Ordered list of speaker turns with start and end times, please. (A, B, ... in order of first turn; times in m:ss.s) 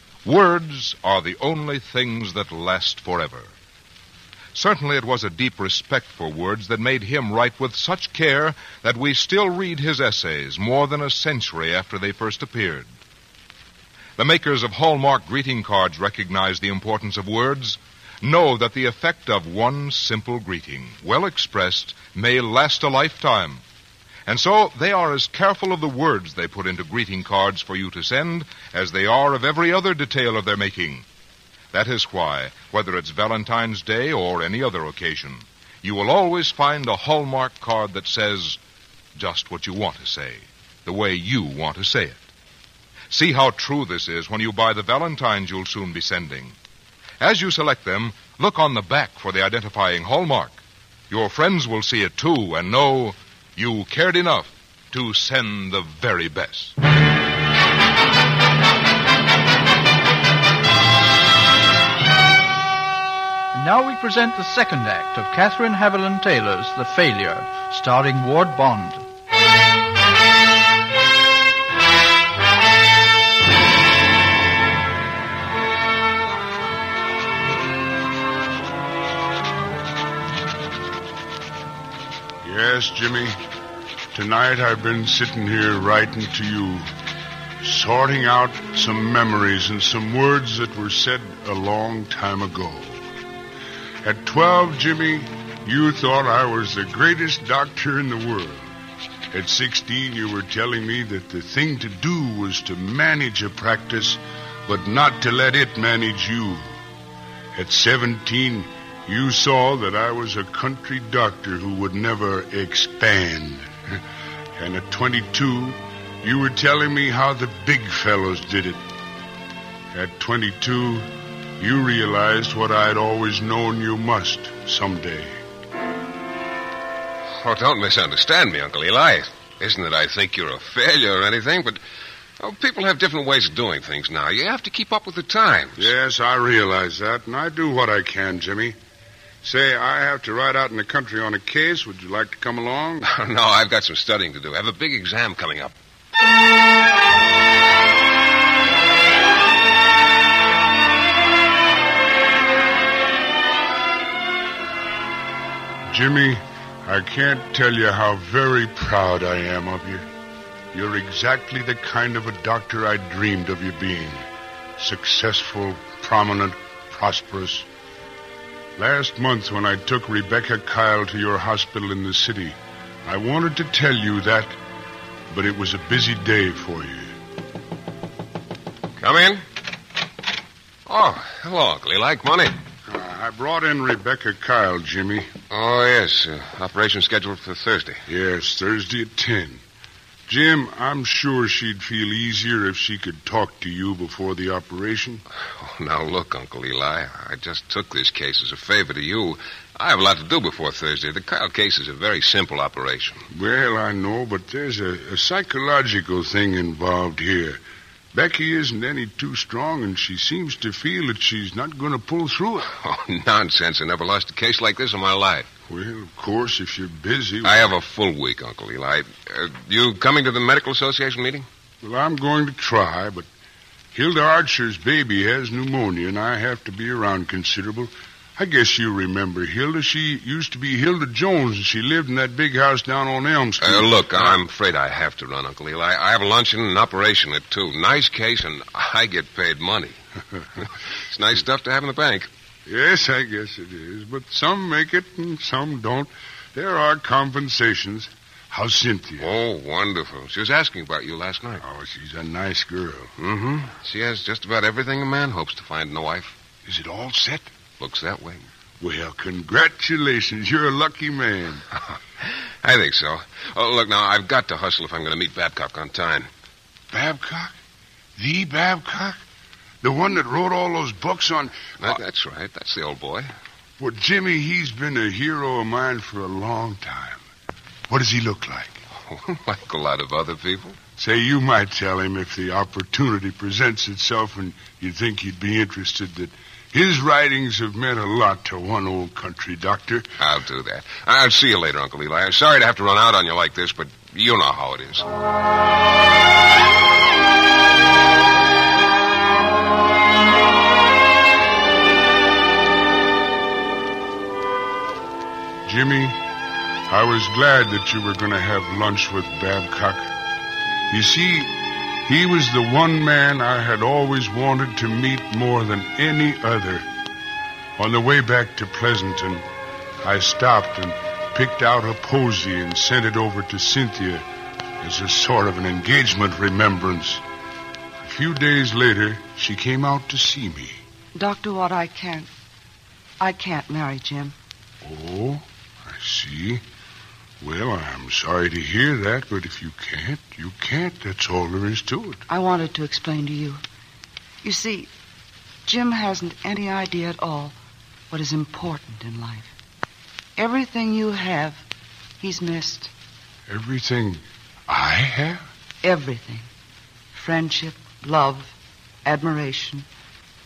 0:00.2-0:03.5 A
0:04.5-0:12.9 A
0:14.2-0:23.6 A
0:24.2-0:31.0 A
0:31.7-0:38.6 A
0:39.2-0:42.2 A
0:43.1-0:46.6 A
0:47.2-0:56.7 A
1:03.5-1:09.0 B
1:22.4-1:23.4 C
1:24.1-1:26.9 C
1:27.6-1:33.1 C
1:34.0-1:38.8 C
1:39.3-1:46.8 C
1:47.5-1:54.0 C
1:54.6-1:58.8 C
1:59.9-2:01.1 C
2:01.6-2:05.3 C
2:07.3-2:11.8 D
2:12.4-2:15.9 D
2:15.8-2:18.8 C
2:19.4-2:23.1 C
2:23.0-2:25.8 D
2:35.9-2:40.0 C
2:40.7-2:44.3 C
2:44.8-2:47.7 C
2:48.8-2:54.6 C
2:55.3-2:57.1 C
2:59.0-2:59.4 D
3:00.9-3:02.6 D
3:02.9-3:05.3 C
3:05.5-3:08.0 D
3:08.1-3:09.6 C
3:10.3-3:15.2 C
3:15.4-3:23.2 D
3:23.3-3:27.6 C
3:28.1-3:32.7 C
3:32.7-3:35.5 D
3:35.7-3:37.8 C
3:37.4-3:41.5 D
3:41.8-3:43.2 C
3:43.9-3:54.4 C
3:53.6-4:00.0 D
4:00.6-4:02.3 D
4:02.6-4:09.3 C
4:09.2-4:11.6 D
4:11.6-4:13.1 C
4:13.2-4:16.4 D
4:16.6-4:17.5 C
4:17.8-4:18.5 D
4:18.8-4:21.7 C
4:22.6-4:26.3 D
4:26.9-4:27.6 C
4:28.2-4:29.2 C
4:29.8-4:32.0 C
4:31.8-4:33.3 D
4:33.8-4:37.2 C
4:37.9-4:38.8 C
4:39.0-4:40.8 D
4:41.0-4:50.1 C
4:50.2-4:55.0 D
5:05.6-5:06.2 C
5:06.9-5:10.1 C
5:10.9-5:11.5 C
5:12.0-5:16.9 C
5:17.8-5:19.4 C
5:20.0-5:24.2 C
5:24.8-5:27.2 C
5:28.0-5:30.8 C
5:31.2-5:32.3 E
5:33.2-5:34.4 E
5:34.8-5:36.6 C
5:37.4-5:42.2 C
5:42.3-5:43.6 E
5:44.4-5:44.9 E
5:45.6-5:47.6 E
5:48.1-5:49.5 E
5:50.4-5:51.6 E
5:52.2-5:52.9 E
5:53.5-5:55.5 C
5:55.8-5:56.5 E
5:57.1-5:59.9 E